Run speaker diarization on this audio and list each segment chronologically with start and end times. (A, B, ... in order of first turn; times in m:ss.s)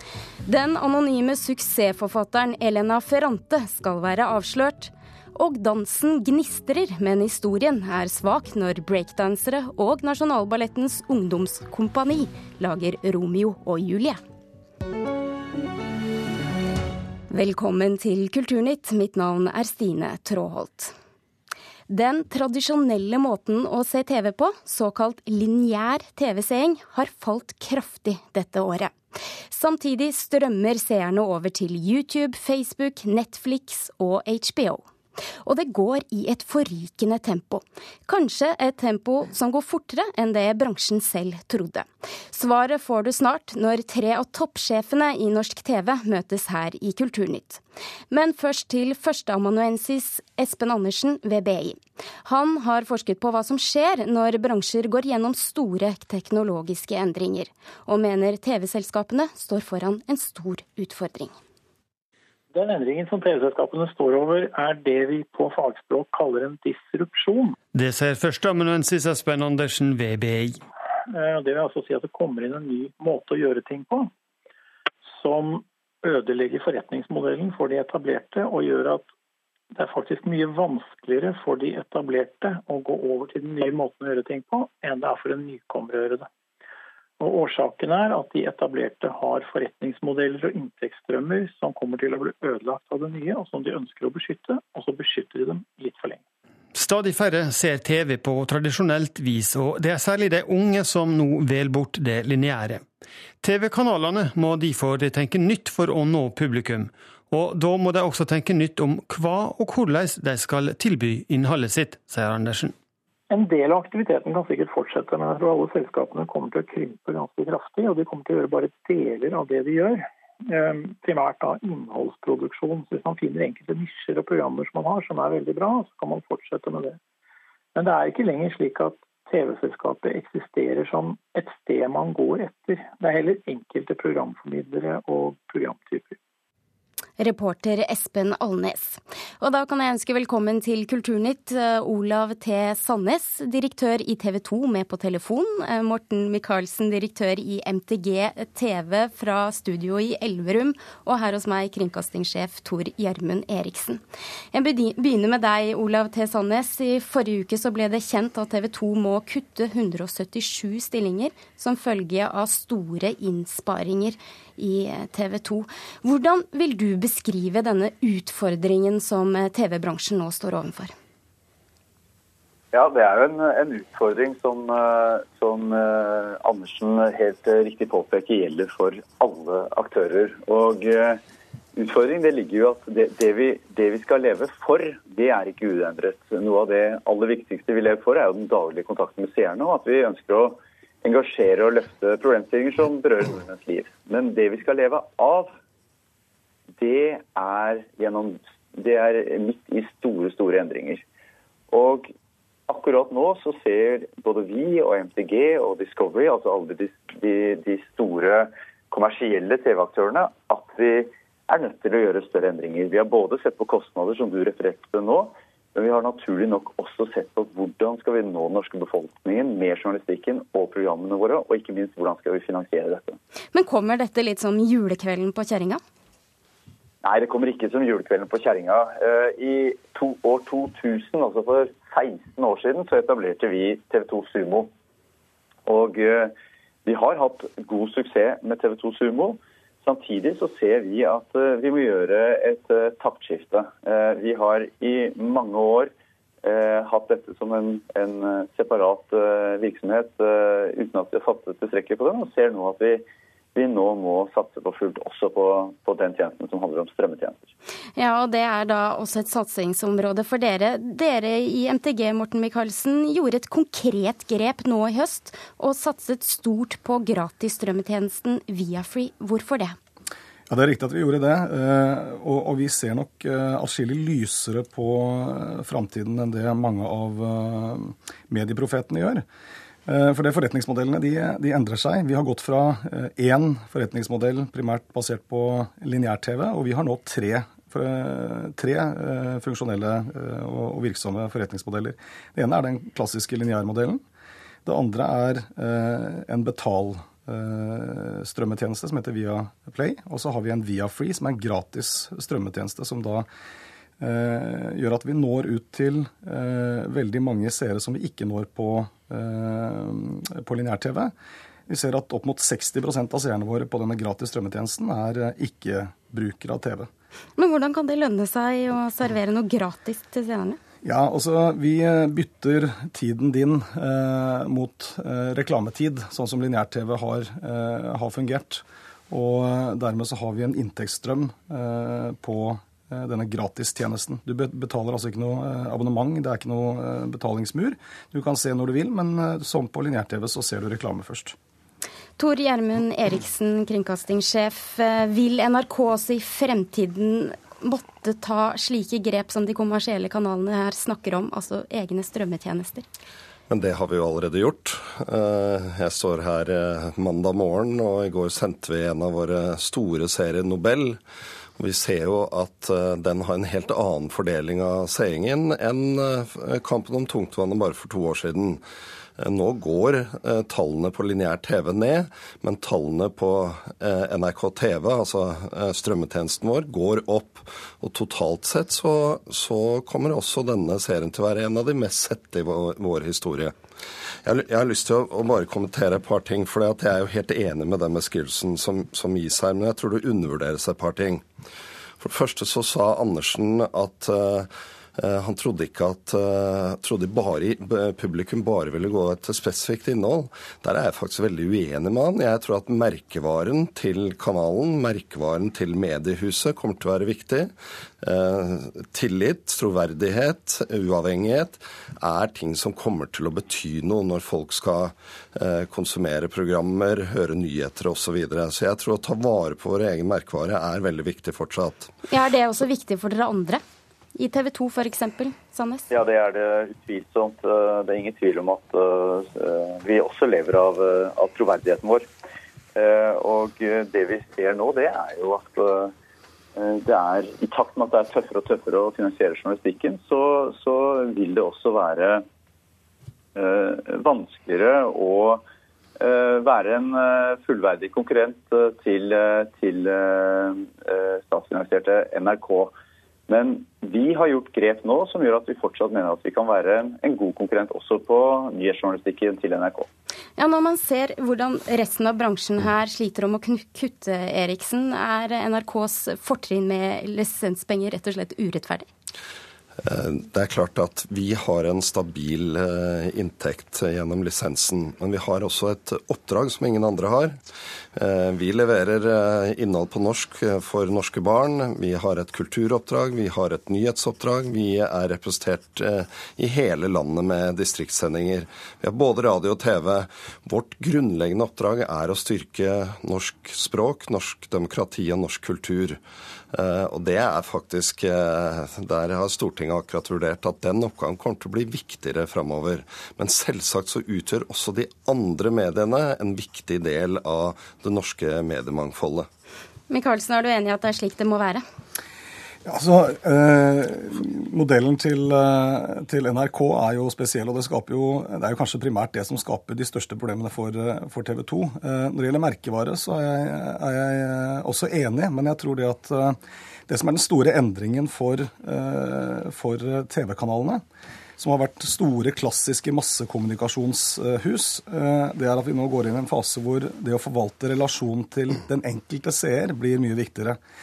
0:00.4-0:14.2 A
0:17.3-0:20.9 A
0:21.9-0:28.9 A
0:29.5-0:34.8 A
0:35.4-1:01.3 A
1:02.5-1:07.6 B
1:07.7-1:10.6 C
1:11.1-1:14.1 B
1:15.2-1:19.1 B
1:19.7-1:26.3 B
1:27.2-1:36.2 B
1:36.7-1:42.8 C
1:43.4-1:52.7 C
1:53.3-2:07.0 B
2:07.7-2:16.2 B
2:17.2-2:34.0 A
2:34.5-2:50.9 A
2:52.7-3:01.2 D
3:01.8-3:15.5 D
3:16.8-3:21.0 D
3:21.7-3:22.1 D
3:22.7-3:43.2 D
3:43.5-3:45.8 A
3:47.0-3:54.7 D
3:55.6-3:56.3 D
3:56.8-4:05.9 D
4:06.4-4:17.5 D
4:18.0-4:29.8 A
4:30.5-4:39.2 E
4:39.8-4:54.0 E
4:54.6-5:03.3 E
5:04.0-5:11.1 E
5:11.7-5:16.9 E
5:17.4-5:20.6 A
5:20.8-5:41.4 E
5:42.2-5:52.8 A
5:53.5-6:01.0 F
6:01.6-6:08.6 F
6:09.2-6:23.5 F
6:24.2-6:31.2 F
6:32.0-7:01.9 F
7:02.1-7:03.6 A
7:04.1-7:05.8 A
7:05.9-7:12.0 D
7:12.8-7:15.9 D
7:16.6-7:22.2 D
7:23.4-7:25.4 D
7:26.0-7:32.7 D
7:33.3-7:39.9 D
7:40.4-7:48.9 A
7:49.8-7:57.4 F
7:58.0-8:16.0 F
8:16.5-8:29.3 F
8:29.9-8:31.6 A
8:32.6-8:50.8 E
8:51.4-9:00.6 E